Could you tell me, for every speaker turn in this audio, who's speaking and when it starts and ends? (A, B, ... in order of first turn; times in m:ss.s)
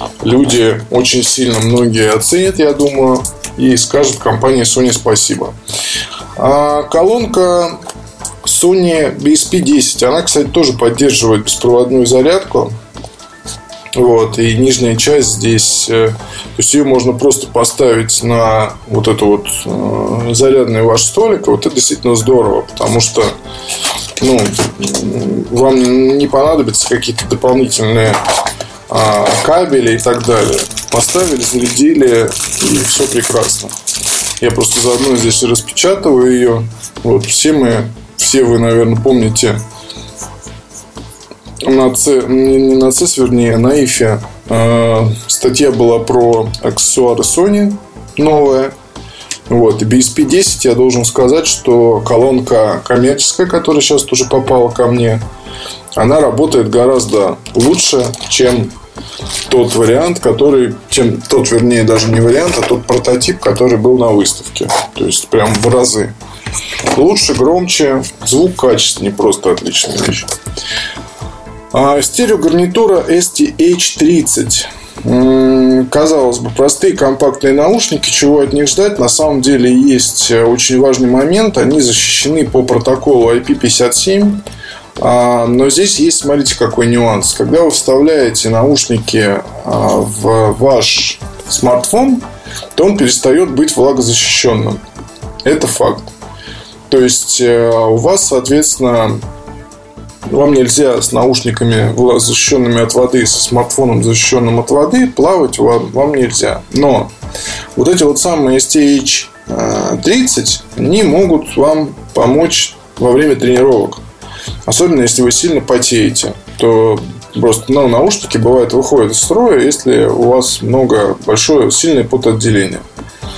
0:00.2-0:05.6 A
0:06.4-0:07.8 A
0:08.4-0:12.7 A
0:14.0-0:23.3 A
0:24.2-0:28.2 A
0:28.9-0:33.7 A
0:34.4-0:39.6 A
0:41.6-0:48.7 A
0:49.5-0:55.2 A
0:56.0-0:58.7 A
0:59.5-1:06.1 A
1:06.9-1:10.3 A
1:11.7-1:24.4 A
1:25.0-1:34.8 A
1:35.4-1:36.1 A
1:36.9-1:39.2 A
1:40.3-1:47.1 A
1:47.7-1:54.0 A
1:54.6-2:02.8 A